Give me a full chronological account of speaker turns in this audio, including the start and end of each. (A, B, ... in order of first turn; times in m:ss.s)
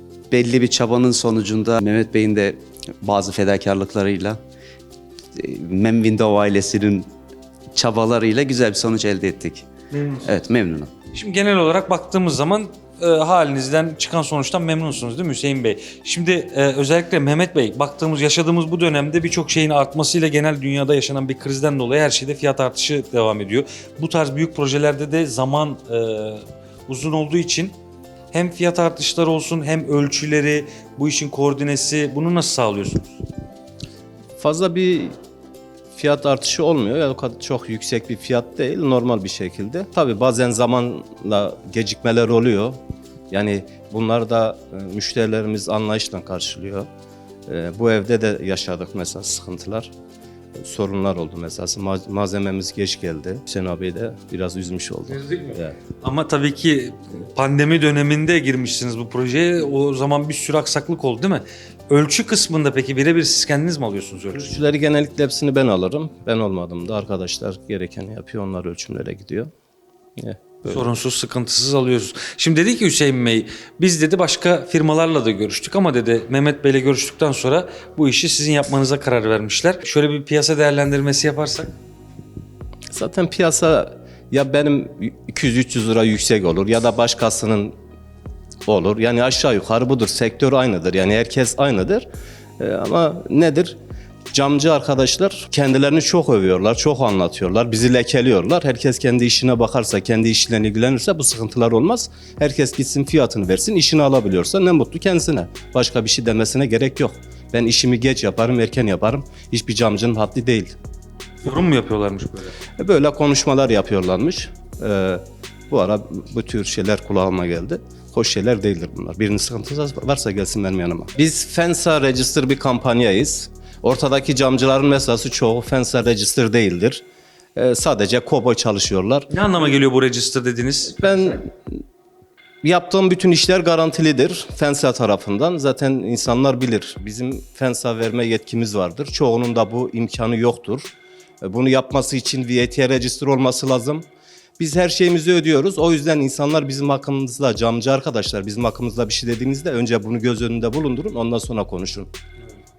0:00.3-0:04.4 A
0:05.4-0:07.1 A
0:07.7-0:09.7 A
0:09.9-0:10.3 B
0:10.2-0:10.9 A
0:11.1-0:27.7 B
0:28.3-0:33.2 B
0:34.4-0:35.1 C
0:35.9-0:42.8 C
0:43.3-0:46.9 C
0:47.5-0:49.9 C
0:50.6-0:55.8 C
0:55.1-1:04.6 B
1:04.3-1:09.5 C
1:10.2-1:10.9 C
1:10.7-1:21.7 B
1:22.9-1:27.7 C
1:28.6-1:32.0 C
1:32.6-1:33.8 C
1:34.3-1:50.7 C
1:51.4-1:52.6 B
1:52.8-2:07.0 C
2:07.5-2:09.3 C
2:09.3-2:11.0 B
2:10.9-2:11.5 C
2:12.6-2:24.0 C
2:24.6-2:32.1 C